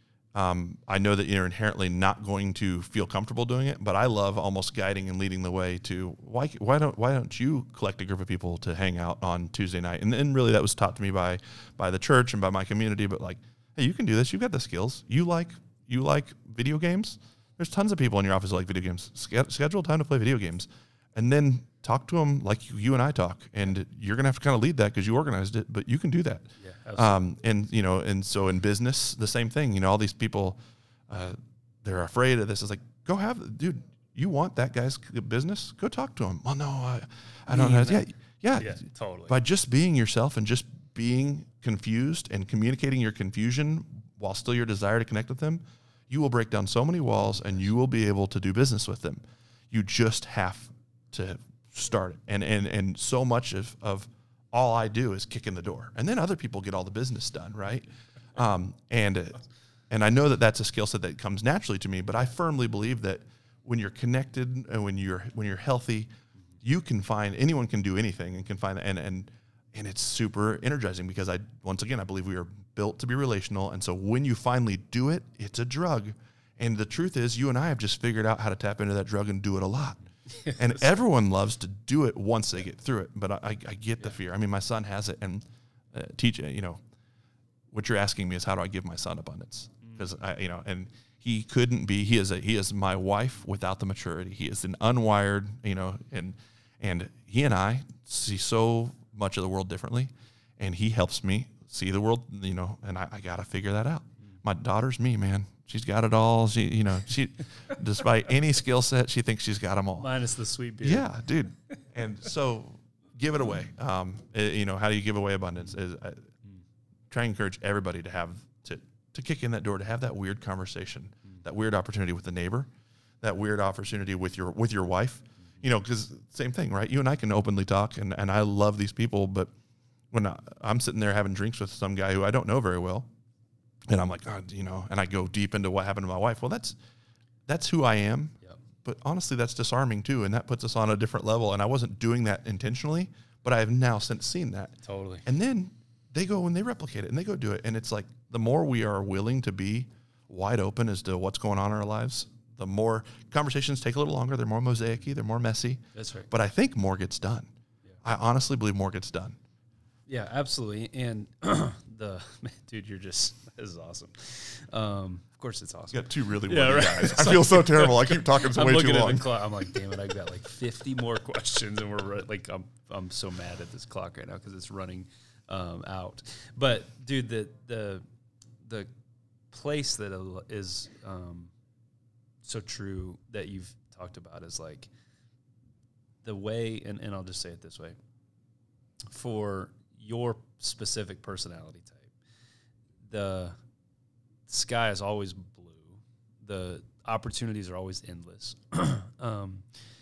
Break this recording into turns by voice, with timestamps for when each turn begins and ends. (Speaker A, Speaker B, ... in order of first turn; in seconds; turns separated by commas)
Speaker A: 0.3-66.1, Speaker B: 26.6-27.2, Speaker B: 37.5-38.0, Speaker B: 38.5-39.4, Speaker A: 66.6-86.8, Speaker B: 80.3-80.6, Speaker A: 87.7-110.1, Speaker B: 110.0-111.1, Speaker A: 110.8-116.3, Speaker A: 117.1-122.7, Speaker A: 123.2-129.5, Speaker A: 130.1-133.1, Speaker A: 133.9-136.8, Speaker A: 137.5-157.5, Speaker B: 144.8-145.2, Speaker B: 155.9-156.3, Speaker A: 158.0-159.4, Speaker B: 160.1-178.0, Speaker A: 165.9-169.4, Speaker B: 178.6-178.9, Speaker B: 179.5-181.5, Speaker B: 182.4-184.9, Speaker B: 186.2-188.0, Speaker B: 189.1-192.1, Speaker B: 193.1-193.6, Speaker B: 194.5-199.6